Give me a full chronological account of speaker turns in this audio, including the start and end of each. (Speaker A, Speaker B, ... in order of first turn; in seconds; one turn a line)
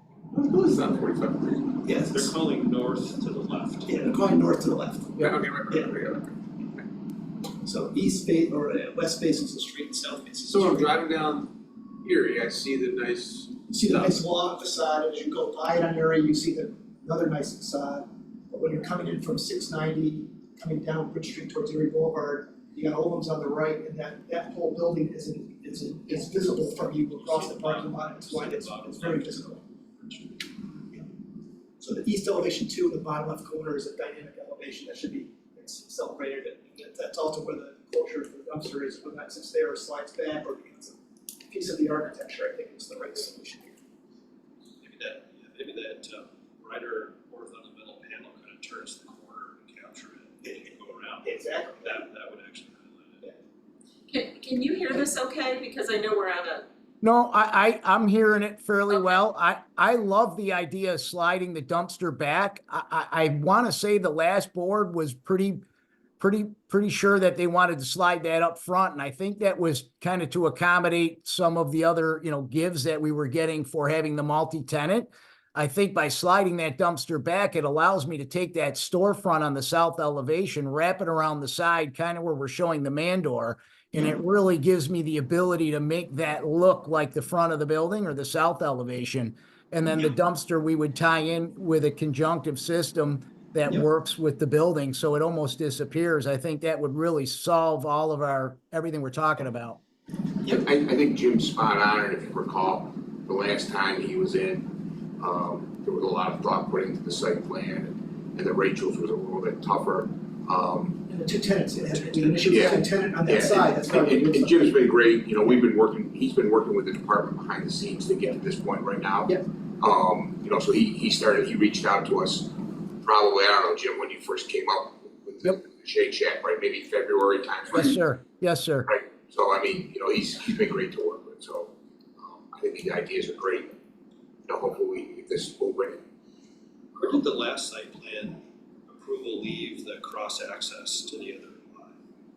Speaker A: 0.3-1.8
Speaker B: 1.8-2.3
Speaker C: 2.1-4.0
Speaker B: 3.9-6.0
Speaker A: 5.2-6.4
Speaker B: 7.6-10.9
Speaker A: 10.5-14.2
Speaker B: 13.7-29.6
Speaker C: 27.1-30.6
Speaker B: 31.8-43.8
Speaker C: 44.8-53.3
Speaker B: 51.2-52.0
Speaker D: 54.1-56.7
Speaker E: 57.0-65.6
Speaker E: 66.2-99.8
Speaker A: 100.4-111.0
Speaker B: 111.1-114.8
Speaker C: 112.2-112.5
Speaker A: 112.5-128.0
Speaker E: 127.7-128.9
Speaker A: 128.9-133.8
Speaker A: 134.5-136.0
Speaker C: 136.9-142.0